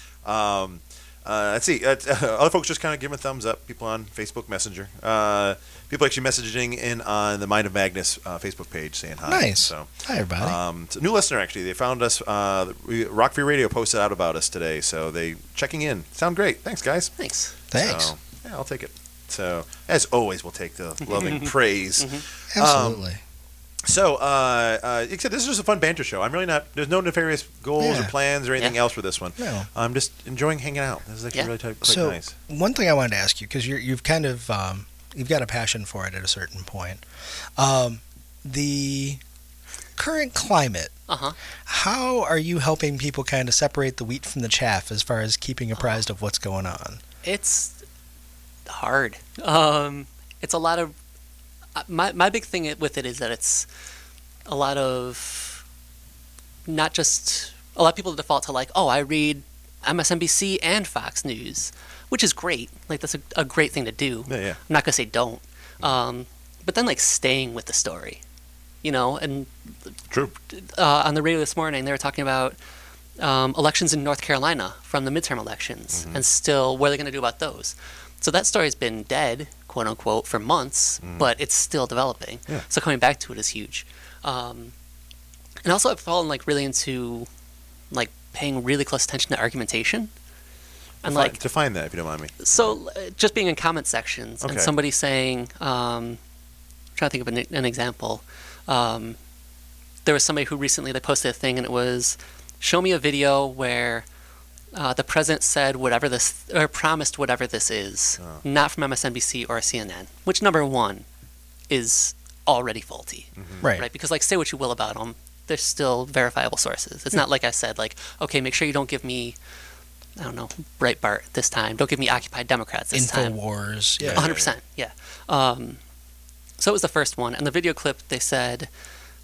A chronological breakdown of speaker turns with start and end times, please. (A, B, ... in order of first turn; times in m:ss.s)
0:00.2-0:09.9 A
0:09.3-0:10.6 B
0:10.4-0:17.1 A
0:17.2-0:17.6 C
0:17.7-0:23.1 A
0:17.7-0:18.1 B
0:21.0-0:22.2 C
0:22.5-0:23.2 B
0:23.8-0:32.3 A
0:27.8-0:28.1 B
0:29.4-0:29.7 B
0:31.8-0:37.0 B
0:37.6-0:39.2 B
0:40.0-0:40.9 B
0:41.1-0:41.4 C
0:41.7-0:47.0 B
0:47.2-0:47.8 C
0:48.7-0:50.9 C
0:51.8-0:53.7 C
0:54.5-0:55.6 C
0:56.7-1:08.2 C
1:04.3-1:04.6 A
1:08.8-1:09.9 C
1:10.5-1:12.6 C
1:13.2-1:24.7 C
1:15.9-1:16.2 A
1:21.0-1:21.3 A
1:25.6-1:27.3 C
1:27.9-1:30.1 C
1:31.0-1:31.4 C
1:31.0-1:32.8 A
1:32.4-1:36.2 C
1:34.4-1:34.7 A
1:37.0-1:39.2 C
1:40.0-1:44.0 C
1:44.7-1:51.1 C
1:51.7-1:59.4 C
1:53.4-1:53.7 A
1:53.6-1:53.9 B
2:00.2-2:03.4 C
2:02.9-2:04.3 B
2:04.0-2:04.5 A
2:04.1-2:05.8 C
2:06.6-2:08.7 C